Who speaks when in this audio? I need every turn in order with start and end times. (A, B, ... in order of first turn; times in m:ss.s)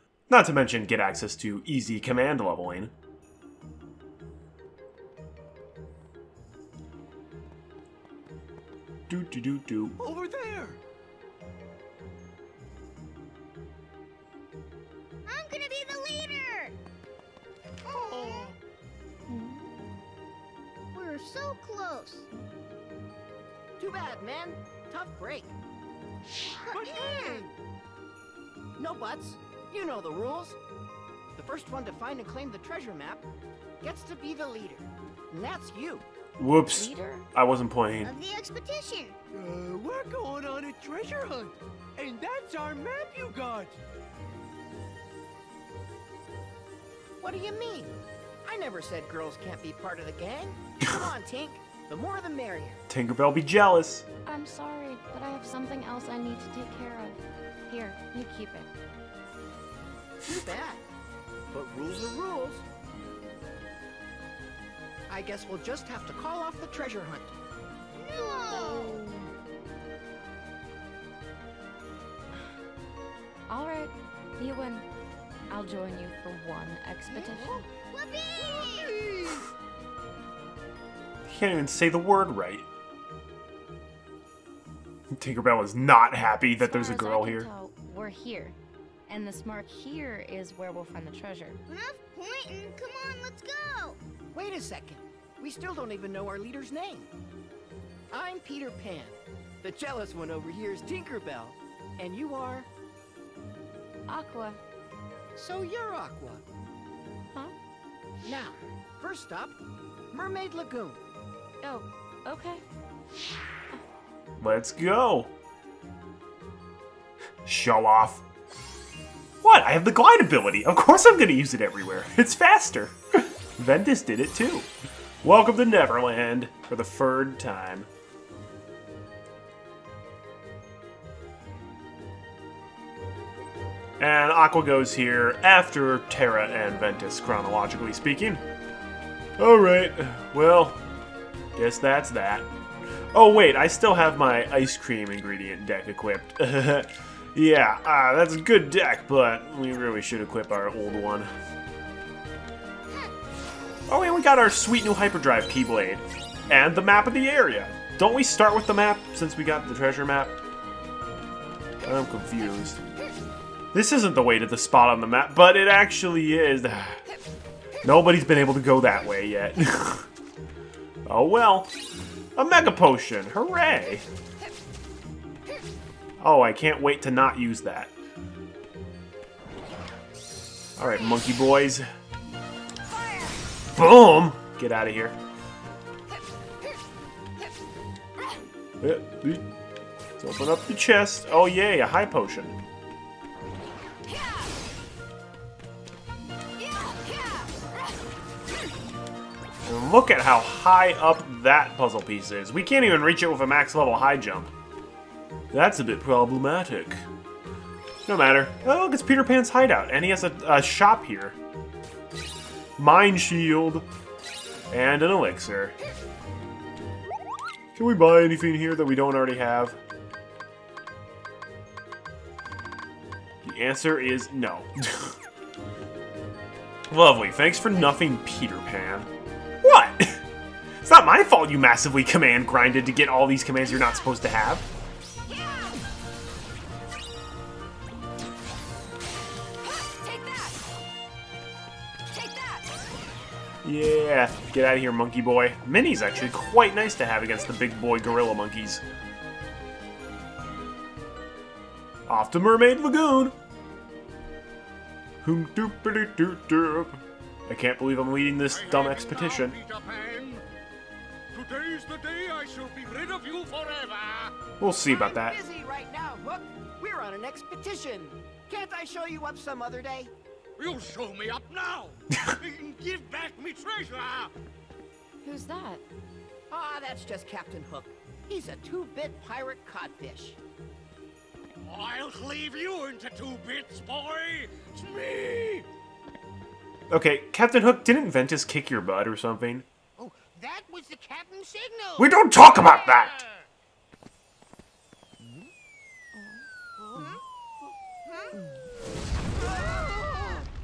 0:00.3-0:02.9 A
0:09.1-0:10.0 A
0:10.0-0:10.8 B
0:15.2-0:16.8 C
0:17.9-0:18.5 B
0:18.0-0:18.5 C
0:19.3-0:19.6 C
0:20.9-0:22.3 C
0:23.8-0:25.5 D
0:26.6-0:27.5 C
0:26.7-0:27.4 B
0:28.8-0:30.6 D
0:31.4-0:33.2 D
0:33.8-0:36.0 D
0:36.4-0:38.1 A
0:36.7-0:37.2 E
0:38.0-0:39.2 C
0:39.3-0:43.8 B
0:47.2-0:52.8 D
0:52.9-0:54.0 A
0:54.2-0:58.7 E
1:00.2-1:00.8 D
1:01.5-1:02.6 D
1:05.1-1:07.3 D
1:07.9-1:09.1 C
1:08.5-1:08.8 B
1:13.5-1:14.8 E
1:15.5-1:17.6 E
1:17.1-1:19.4 C
1:21.3-1:22.6 A
1:25.1-1:27.5 A
1:26.6-1:28.6 E
1:29.1-1:31.6 E
1:31.7-1:34.0 C
1:34.3-1:37.1 D
1:38.1-1:42.7 D
1:44.1-1:44.6 E
1:45.3-1:46.4 D
1:48.2-1:49.6 D
1:50.1-1:51.0 D
1:51.6-1:52.6 E
1:54.4-1:55.3 A
1:57.4-1:58.2 A
1:59.4-2:04.7 A
2:05.2-2:07.9 A
2:14.0-2:18.4 A
2:19.4-2:20.8 A
2:21.6-2:22.5 A
2:23.1-2:31.3 A
2:33.9-2:40.3 A
2:41.8-2:42.8 A
2:43.7-2:47.0 A
2:47.8-2:50.1 A
2:51.0-2:51.7 A
2:52.4-2:54.0 A
2:56.2-2:57.9 A
3:00.8-3:01.9 A
3:03.7-3:05.2 A
3:08.8-3:09.4 A
3:10.2-3:12.6 A
3:19.6-3:24.5 A
3:25.5-3:27.0 A
3:28.0-3:31.4 A
3:32.8-3:33.8 A
3:34.7-3:35.7 A
3:37.8-3:39.8 A
3:43.4-3:45.2 A
3:46.9-3:49.1 A
3:49.6-3:50.2 A
3:50.8-3:54.7 A
4:00.0-4:00.5 E
4:02.1-4:02.5 E
4:03.6-4:08.8 A
4:12.1-4:13.3 A
4:15.2-4:19.6 A
4:19.2-4:20.4 F
4:21.4-4:24.3 F
4:24.6-4:25.4 A
4:24.8-4:30.1 D
4:30.6-4:34.3 F
4:35.2-4:35.8 E
4:36.5-4:40.4 D
4:41.7-4:45.6 F
4:46.9-4:49.6 A
4:50.5-4:51.9 F
4:52.0-4:53.2 A
4:56.1-4:56.4 E
4:56.9-4:57.2 C
4:58.0-4:58.4 C
4:59.6-5:00.4 C